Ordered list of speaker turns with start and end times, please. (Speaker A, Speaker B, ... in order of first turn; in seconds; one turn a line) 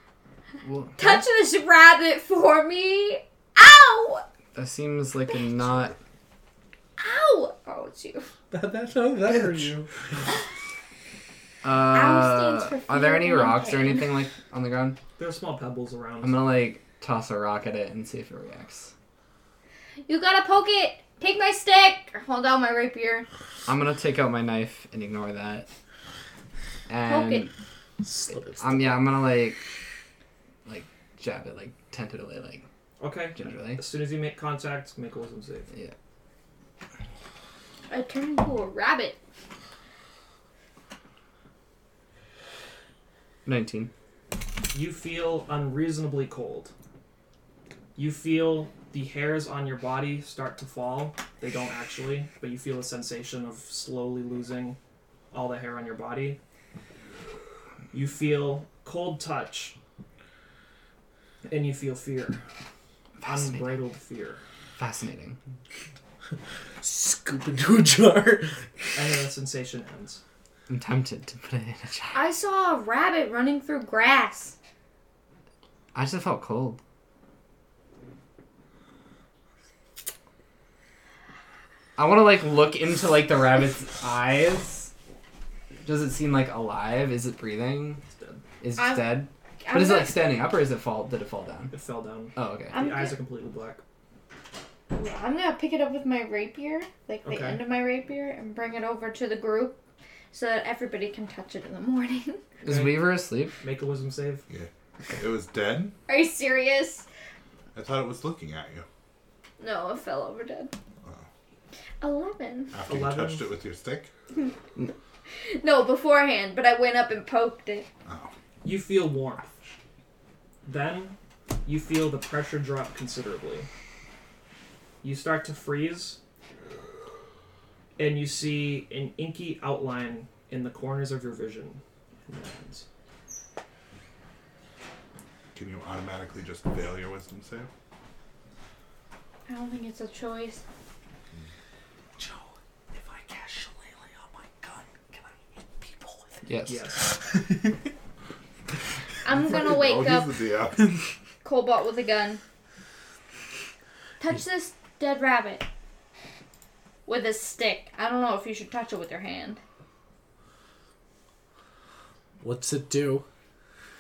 Speaker A: 0.6-1.3
Speaker B: 1.0-4.2
Speaker A: 4.5-6.0
Speaker B: 7.0-8.3
Speaker C: 8.5-9.9
Speaker D: 9.3-9.7
Speaker A: 11.6-15.0
Speaker B: 11.9-14.2
Speaker E: 15.2-16.5
Speaker A: 16.2-18.9
Speaker B: 20.1-23.3
Speaker A: 23.7-25.7
Speaker A: 26.9-27.5
Speaker B: 27.1-27.5
Speaker C: 28.0-29.0
Speaker A: 28.6-29.6
Speaker A: 30.7-32.6
Speaker E: 33.0-35.7
Speaker A: 33.4-33.8
Speaker B: 37.9-39.2
Speaker A: 43.5-43.9
Speaker E: 44.7-46.7
Speaker E: 48.0-54.8
Speaker E: 55.3-56.4
Speaker E: 57.9-59.8
Speaker E: 61.4-62.4
Speaker A: 63.2-63.8
Speaker E: 63.2-64.4
Speaker A: 64.8-65.4
Speaker C: 66.8-69.0
Speaker E: 69.0-70.2
Speaker A: 70.7-72.2
Speaker B: 72.1-74.5
Speaker A: 75.9-76.8
Speaker A: 82.0-84.9
Speaker A: 85.8-88.0
Speaker E: 88.1-88.4
Speaker A: 88.6-91.8
Speaker B: 88.8-90.3
Speaker E: 91.7-93.8
Speaker A: 92.4-92.8
Speaker B: 92.7-93.2
Speaker B: 94.9-99.8
Speaker E: 97.2-97.6
Speaker B: 100.3-102.4
Speaker A: 102.6-103.6
Speaker E: 102.7-104.5
Speaker D: 104.5-106.0
Speaker B: 106.1-107.1
Speaker D: 107.7-108.9
Speaker B: 109.6-110.7
Speaker B: 112.0-112.8
Speaker D: 112.7-114.1
Speaker E: 112.9-113.5
Speaker B: 115.4-117.9
Speaker D: 118.1-118.3
Speaker E: 118.6-119.5
Speaker E: 120.7-123.7
Speaker E: 125.0-126.2
Speaker E: 128.0-132.9
Speaker D: 135.5-137.7
Speaker B: 139.5-140.6
Speaker C: 142.2-146.4
Speaker A: 146.4-146.8
Speaker E: 146.7-147.1
Speaker C: 147.3-147.7
Speaker B: 149.2-150.4
Speaker D: 149.3-150.9
Speaker B: 151.4-152.4
Speaker B: 154.2-155.7
Speaker B: 157.1-159.6
Speaker C: 162.4-163.2